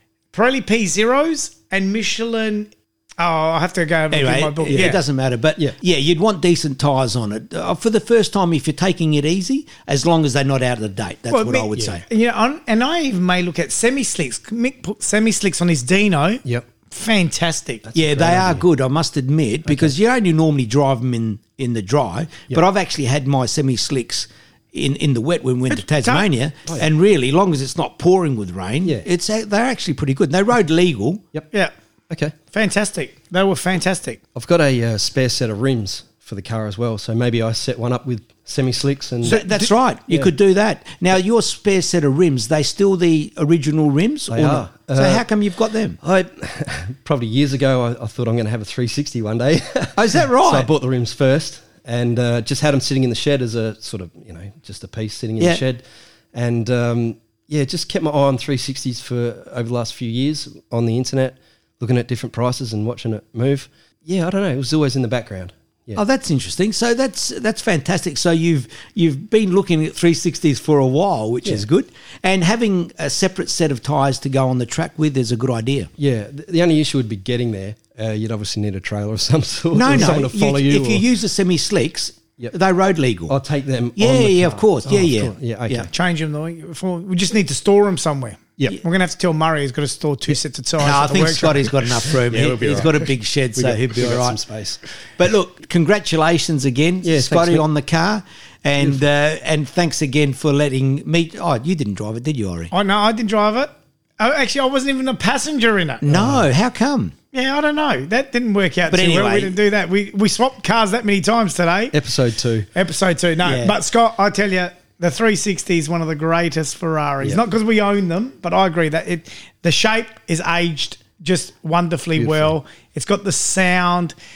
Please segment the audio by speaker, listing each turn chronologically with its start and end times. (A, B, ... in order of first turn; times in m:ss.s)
0:00.3-0:05.0 A
0:04.1-0:12.0 B
0:11.3-0:17.8 A
0:17.8-0:18.6 C
0:17.9-0:31.2 B
0:19.7-0:19.9 C
0:25.8-0:26.3 A
0:32.1-0:32.4 C
0:32.5-0:34.2 A
0:34.4-0:39.4 C
0:39.2-0:46.0 B
0:39.3-0:39.6 A
0:44.3-0:45.3 C
0:46.0-1:06.0 C
0:50.0-0:50.7 B
1:06.0-1:15.9 B
1:16.0-1:21.0 C
1:19.7-1:23.4 B
1:23.3-1:25.9 C
1:24.0-1:25.9 B
1:25.9-1:31.7 A
1:30.8-1:34.4 B
1:31.4-1:34.8 C
1:35.2-1:42.7 B
1:37.0-1:37.7 C
1:42.7-1:46.0 A
1:46.0-1:47.1 B
1:46.1-1:46.4 C
1:47.3-1:52.0 A
1:48.9-1:49.6 B
1:51.9-1:52.7 C
1:52.8-2:04.2 A
1:53.4-1:53.8 B
2:02.2-2:02.6 C